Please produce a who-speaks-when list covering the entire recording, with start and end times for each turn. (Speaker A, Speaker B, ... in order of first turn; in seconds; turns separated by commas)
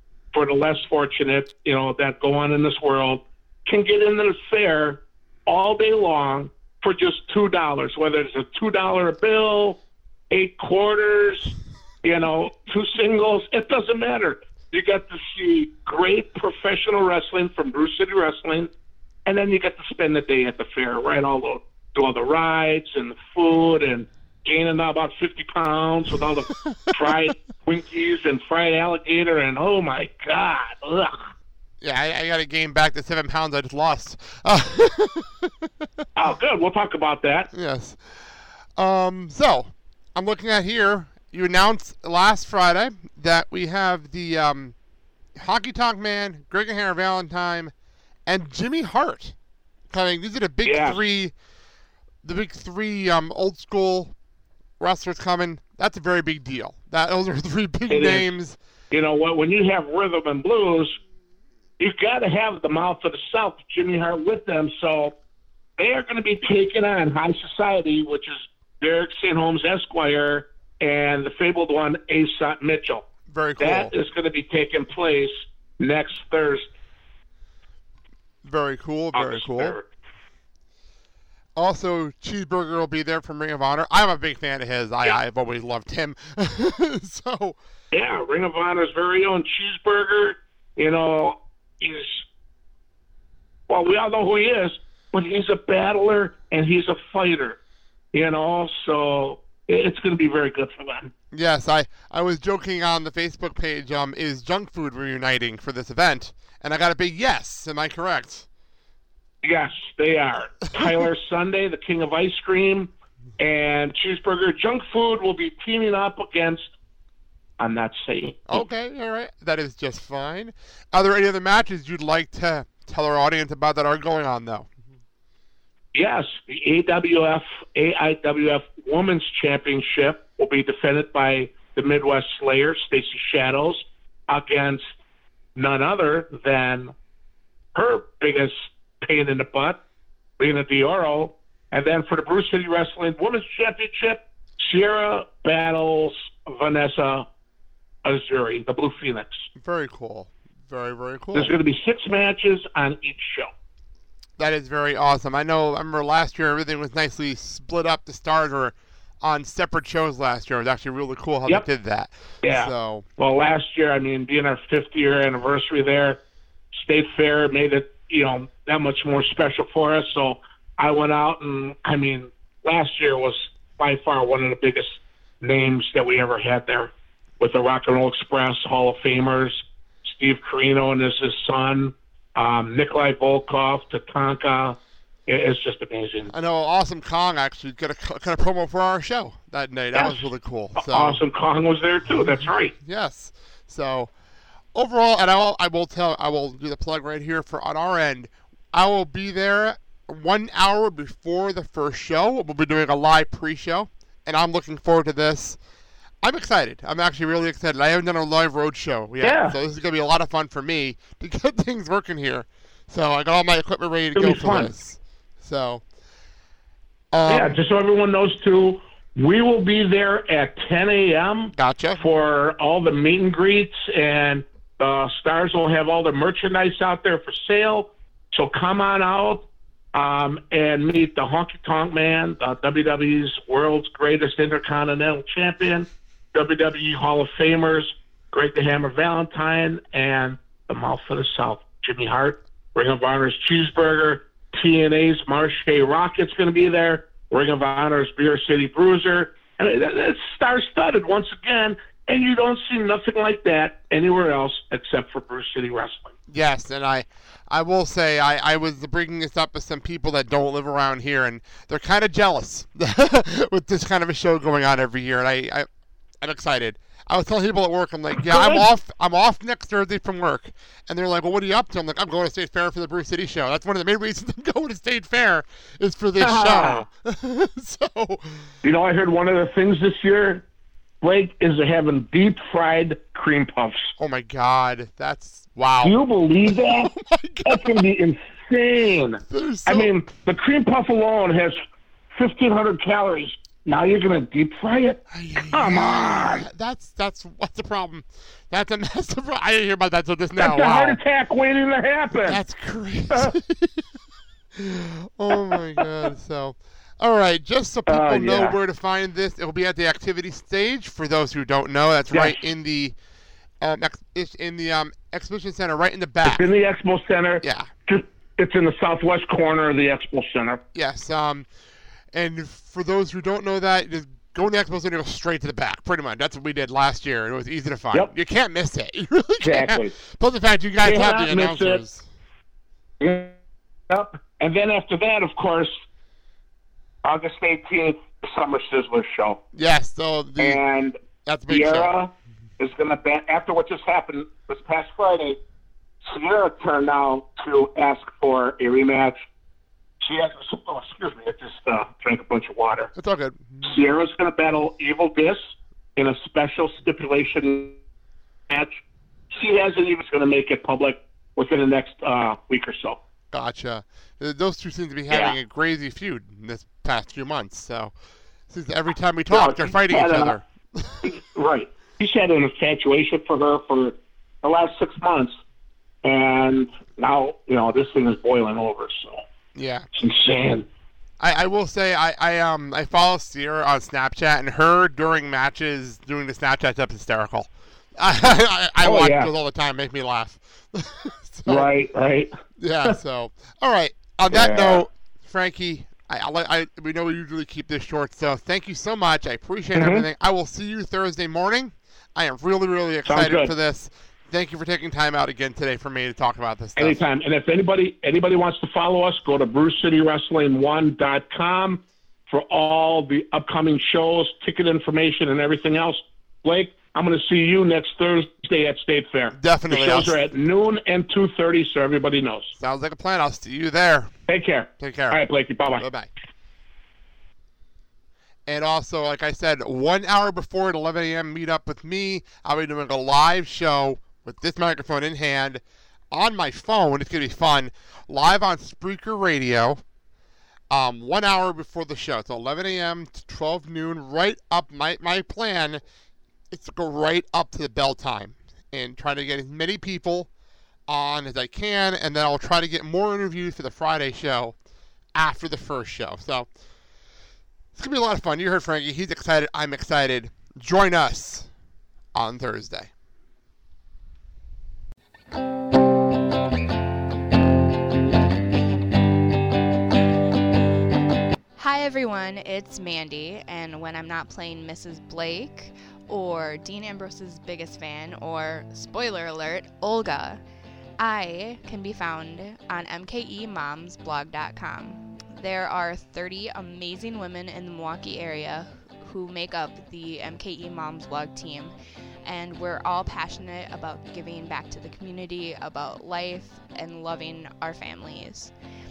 Speaker A: 0.3-9.8, Speaker A: 10.3-11.5, Speaker A: 12.0-18.7, Speaker A: 19.3-31.3, Speaker B: 31.8-35.6, Speaker A: 36.2-37.5, Speaker B: 37.5-38.2, Speaker B: 38.8-44.8, Speaker B: 45.4-47.7, Speaker B: 48.3-49.4, Speaker B: 49.9-51.3, Speaker A: 50.6-51.0, Speaker B: 52.2-54.1, Speaker B: 54.8-58.6, Speaker A: 57.9-58.3, Speaker A: 58.9-61.0, Speaker A: 61.8-65.2, Speaker A: 65.8-73.1, Speaker B: 73.3-73.9, Speaker A: 73.6-76.7, Speaker B: 78.4-79.8, Speaker A: 79.1-79.8, Speaker B: 81.6-87.6, Speaker A: 87.9-92.2, Speaker A: 93.7-97.6, Speaker A: 98.1-101.1, Speaker B: 101.3-108.5, Speaker A: 109.4-116.7, Speaker A: 117.6-118.6, Speaker B: 118.5-124.7, Speaker A: 125.9-134.9, Speaker A: 135.6-136.9, Speaker A: 137.8-139.8, Speaker A: 140.4-147.3, Speaker A: 148.1-149.5, Speaker B: 149.6-151.5, Speaker A: 151.3-153.5, Speaker B: 154.4-163.1, Speaker A: 162.4-166.2, Speaker A: 166.7-186.3, Speaker B: 186.3-191.2, Speaker A: 189.9-190.2, Speaker A: 190.8-192.7, Speaker B: 192.1-194.1, Speaker B: 194.7-205.6, Speaker B: 206.2-215.8, Speaker A: 209.2-209.6, Speaker A: 214.2-214.7, Speaker B: 217.1-217.6, Speaker A: 217.3-256.1, Speaker B: 221.6-222.0, Speaker B: 256.3-265.7, Speaker B: 266.2-278.5, Speaker A: 268.2-268.7, Speaker A: 276.2-276.9, Speaker A: 278.6-280.4, Speaker A: 281.0-283.9, Speaker B: 284.0-287.9, Speaker A: 285.8-286.9, Speaker A: 287.5-291.6, Speaker B: 289.3-289.9, Speaker A: 292.1-295.0, Speaker B: 295.1-301.0, Speaker A: 295.5-296.4, Speaker A: 300.4-302.4, Speaker B: 302.2-303.8, Speaker B: 304.6-312.9, Speaker A: 307.9-308.6, Speaker A: 312.1-312.4, Speaker B: 313.6-316.5, Speaker A: 316.2-320.6, Speaker B: 317.4-317.7, Speaker B: 320.7-321.5, Speaker B: 322.1-332.1, Speaker A: 329.4-329.9, Speaker A: 330.8-331.8, Speaker A: 333.0-333.4, Speaker A: 333.9-335.8, Speaker A: 337.0-339.4, Speaker B: 339.5-340.6, Speaker A: 340.4-341.0, Speaker B: 341.2-341.9, Speaker A: 341.5-345.4, Speaker A: 346.1-349.2, Speaker A: 350.0-352.9, Speaker B: 353.0-353.8, Speaker A: 353.6-355.4, Speaker A: 356.0-357.8, Speaker A: 358.5-358.8, Speaker A: 359.4-363.0, Speaker B: 363.3-367.9, Speaker A: 365.1-365.4, Speaker B: 368.5-371.1, Speaker A: 369.3-370.3, Speaker A: 371.1-375.4, Speaker A: 376.0-379.2, Speaker B: 379.6-379.9, Speaker A: 380.0-380.7, Speaker B: 381.2-391.7, Speaker A: 388.8-389.3, Speaker A: 391.5-392.3, Speaker B: 392.6-407.0, Speaker A: 394.3-394.8, Speaker A: 399.8-400.1, Speaker A: 403.1-403.5, Speaker A: 406.8-422.5, Speaker B: 419.3-420.1, Speaker B: 422.6-424.1, Speaker A: 424.3-425.9, Speaker B: 424.8-425.2, Speaker B: 425.8-426.1, Speaker B: 428.5-439.8, Speaker B: 440.7-445.8, Speaker B: 446.5-450.3, Speaker B: 450.9-454.6, Speaker B: 455.1-456.5, Speaker B: 457.8-461.5, Speaker B: 462.1-462.9, Speaker C: 471.6-480.4, Speaker C: 481.0-498.5